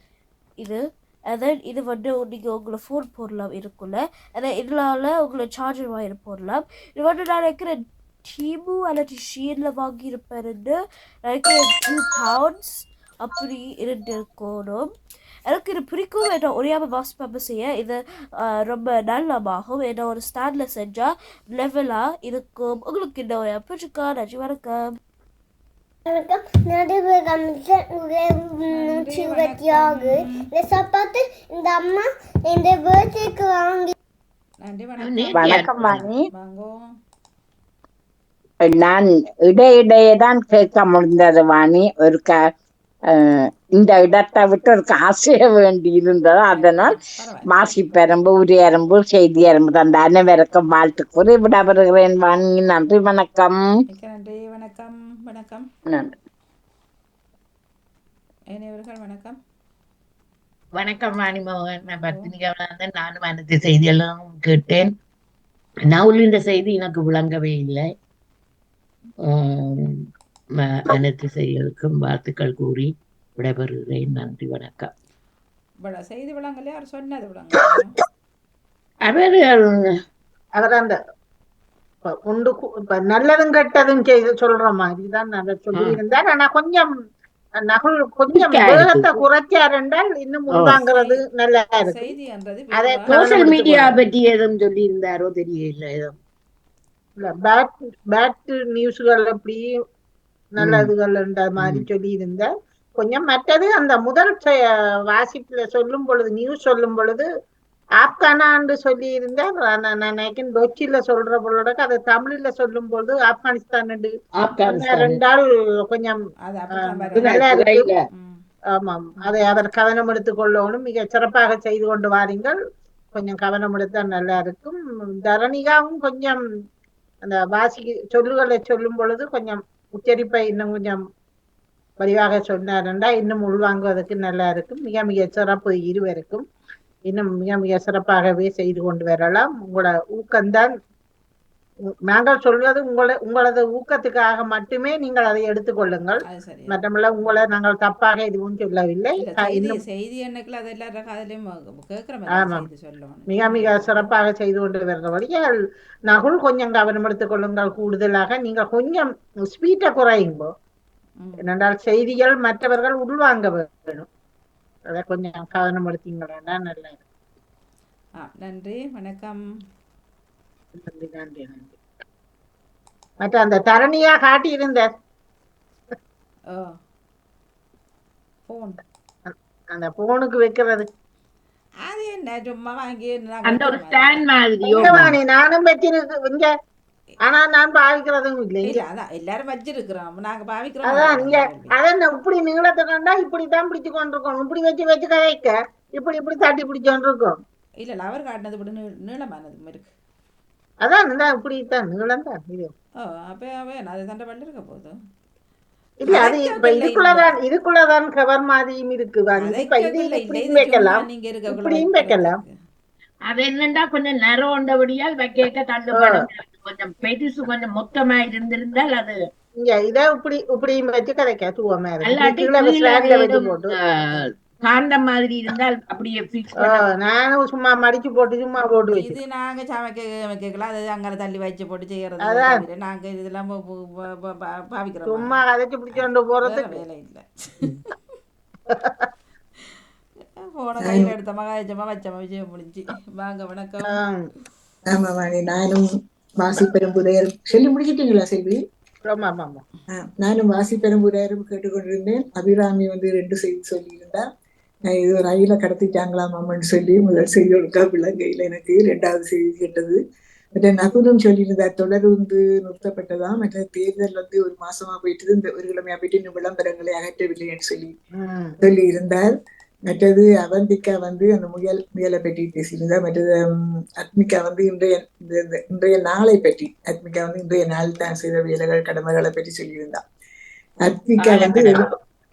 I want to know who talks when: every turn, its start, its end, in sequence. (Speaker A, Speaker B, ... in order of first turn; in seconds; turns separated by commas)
Speaker A: 0.6-14.9, Speaker A: 15.4-24.9, Speaker B: 26.4-27.3, Speaker C: 28.7-30.5, Speaker B: 31.6-32.0, Speaker B: 32.5-33.9, Speaker C: 34.6-36.8, Speaker D: 35.0-36.0, Speaker E: 35.3-36.2, Speaker E: 38.6-42.4, Speaker E: 43.1-46.9, Speaker C: 46.5-48.0, Speaker E: 47.5-53.6, Speaker C: 53.9-55.7, Speaker E: 55.9-56.1, Speaker C: 58.5-59.4, Speaker D: 60.8-64.9, Speaker C: 61.9-62.3, Speaker D: 65.8-67.9, Speaker D: 69.2-70.0, Speaker D: 70.5-74.9, Speaker C: 75.8-78.0, Speaker D: 79.0-80.0, Speaker F: 80.6-81.0, Speaker F: 82.0-86.9, Speaker F: 87.6-92.1, Speaker D: 88.3-89.2, Speaker D: 90.5-90.8, Speaker C: 90.7-91.2, Speaker C: 91.8-93.6, Speaker F: 92.7-93.9, Speaker D: 93.1-96.1, Speaker F: 97.2-99.6, Speaker F: 100.5-104.6, Speaker D: 100.6-100.9, Speaker F: 105.1-107.3, Speaker F: 108.0-114.1, Speaker D: 114.4-115.2, Speaker F: 114.7-116.2, Speaker C: 116.4-117.4, Speaker F: 116.8-117.9, Speaker D: 117.1-118.0, Speaker C: 118.1-118.4, Speaker F: 118.8-122.6, Speaker F: 123.1-126.4, Speaker F: 127.2-131.0, Speaker F: 132.0-136.4, Speaker F: 137.1-140.7, Speaker F: 142.1-149.8, Speaker C: 146.2-147.5, Speaker C: 149.2-154.1, Speaker F: 152.3-152.7, Speaker F: 153.3-155.6, Speaker F: 156.1-160.5, Speaker C: 161.2-161.5, Speaker F: 161.4-164.1, Speaker F: 164.9-167.0, Speaker C: 168.2-169.4, Speaker F: 170.8-171.8, Speaker F: 173.2-174.9, Speaker C: 178.5-178.8, Speaker F: 179.3-180.8, Speaker C: 181.8-184.2, Speaker D: 183.4-185.2, Speaker F: 184.6-186.5, Speaker C: 184.8-185.1, Speaker F: 187.2-188.8, Speaker C: 188.6-191.7, Speaker F: 190.8-197.4, Speaker C: 197.8-199.9, Speaker F: 200.8-202.7, Speaker C: 203.0-205.0, Speaker F: 206.0-212.4, Speaker C: 206.1-207.4, Speaker C: 209.4-212.6, Speaker D: 213.3-219.2, Speaker F: 215.9-216.2, Speaker F: 219.6-223.7, Speaker D: 222.0-226.9, Speaker F: 226.6-229.1, Speaker C: 228.9-235.4, Speaker F: 232.2-232.6, Speaker F: 235.1-236.8, Speaker C: 236.4-237.8, Speaker F: 238.7-239.1, Speaker C: 240.3-244.0, Speaker G: 240.8-241.1, Speaker F: 243.9-244.3, Speaker G: 244.9-245.8, Speaker G: 246.4-248.6, Speaker F: 249.1-249.6, Speaker G: 249.9-254.2, Speaker G: 254.9-260.0, Speaker G: 260.5-267.9, Speaker F: 268.2-268.6, Speaker G: 268.6-269.3, Speaker G: 269.9-273.4, Speaker G: 274.0-280.0, Speaker G: 280.8-281.8, Speaker D: 281.2-281.9